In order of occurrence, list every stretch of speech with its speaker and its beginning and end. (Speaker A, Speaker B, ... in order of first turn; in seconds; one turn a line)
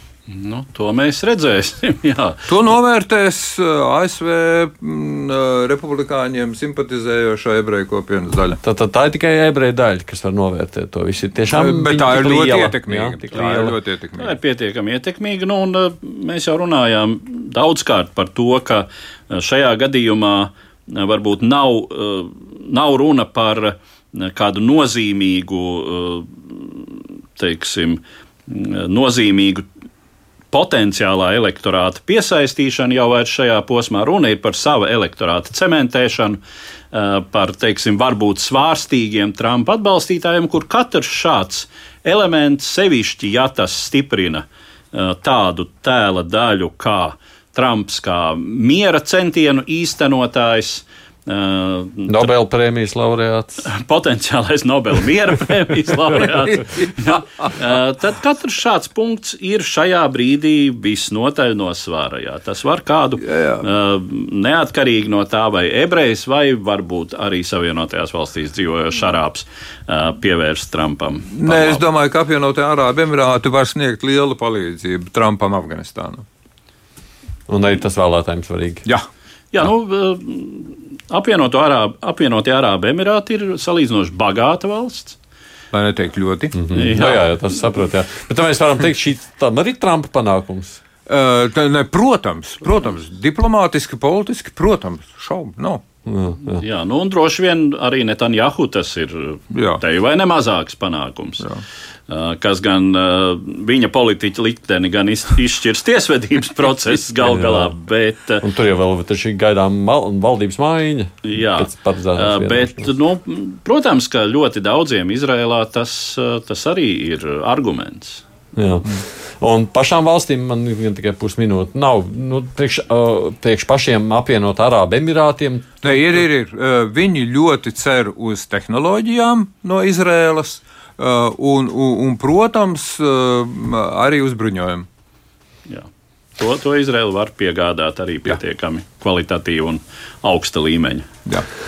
Speaker A: 0.3-2.4
Speaker B: 2.5-8.6
Speaker C: 8.6-13.7
Speaker B: 11.5-14.3
Speaker A: 14.2-29.6
Speaker A: 30.5-36.4
Speaker A: 36.9-52.3
Speaker C: 52.1-53.6
Speaker A: 53.6-71.8
Speaker B: 63.2-63.6
Speaker B: 71.3-76.2
Speaker C: 77.5-78.8
Speaker A: 79.5-85.2
Speaker B: 85.7-86.7
Speaker C: 86.5-90.8
Speaker A: 86.7-87.2
Speaker B: 91.1-95.8
Speaker C: 96.1-96.6
Speaker A: 96.6-101.5
Speaker B: 99.5-99.8
Speaker A: 102.1-108.4
Speaker C: 107.2-107.7
Speaker C: 108.4-112.9
Speaker A: 111.2-118.2
Speaker C: 118.5-125.8
Speaker B: 125.8-134.8
Speaker A: 135.7-141.1